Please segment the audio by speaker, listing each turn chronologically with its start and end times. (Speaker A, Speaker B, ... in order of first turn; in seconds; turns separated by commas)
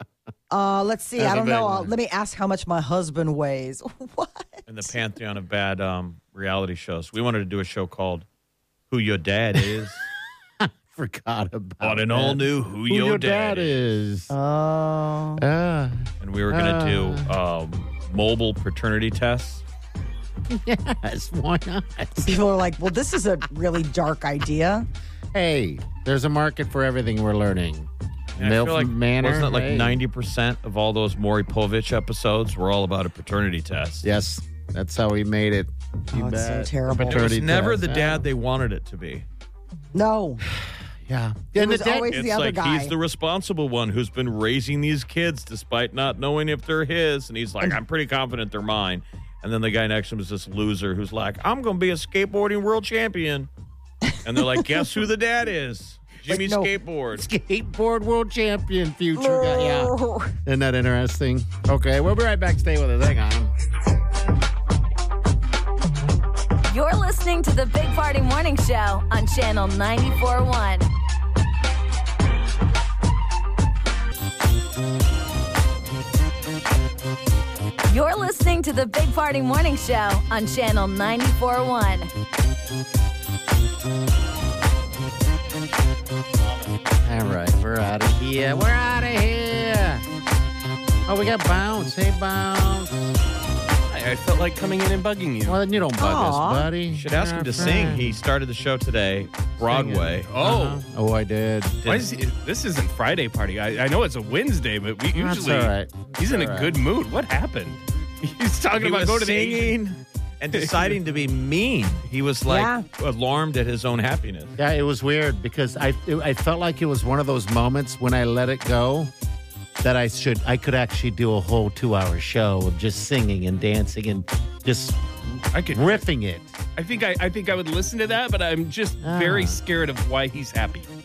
Speaker A: 0.5-4.9, Speaker B: 1.2-1.9, Speaker C: 4.7-8.2, Speaker C: 8.9-10.0, Speaker B: 9.6-9.9, Speaker B: 10.6-14.3, Speaker C: 11.8-14.0, Speaker A: 14.3-15.4, Speaker B: 15.4-17.3, Speaker C: 16.2-19.6, Speaker B: 20.5-22.4, Speaker A: 22.2-24.9, Speaker B: 25.3-30.0, Speaker C: 28.4-34.0, Speaker B: 34.0-38.3, Speaker A: 36.1-37.3, Speaker C: 37.0-39.2, Speaker A: 39.9-40.4, Speaker B: 41.1-42.1, Speaker A: 41.5-42.9, Speaker C: 42.1-53.5, Speaker A: 54.0-54.8, Speaker C: 54.2-57.3, Speaker A: 56.3-56.7, Speaker B: 57.1-59.9, Speaker A: 59.2-60.3, Speaker B: 60.5-63.5, Speaker D: 66.7-70.8, Speaker D: 77.9-82.1, Speaker B: 87.0-90.0, Speaker B: 91.1-93.1, Speaker E: 93.9-95.6, Speaker B: 95.5-98.2, Speaker A: 96.0-96.7, Speaker C: 96.9-100.3, Speaker B: 99.6-101.9, Speaker E: 100.3-100.8, Speaker C: 101.8-102.1, Speaker E: 101.9-109.8, Speaker B: 105.1-106.8, Speaker C: 108.8-114.5, Speaker E: 110.5-111.0, Speaker A: 112.5-112.9, Speaker B: 114.6-119.1, Speaker B: 119.8-125.0, Speaker E: 125.5-126.0, Speaker B: 125.7-126.6, Speaker E: 126.8-130.9, Speaker B: 129.0-129.6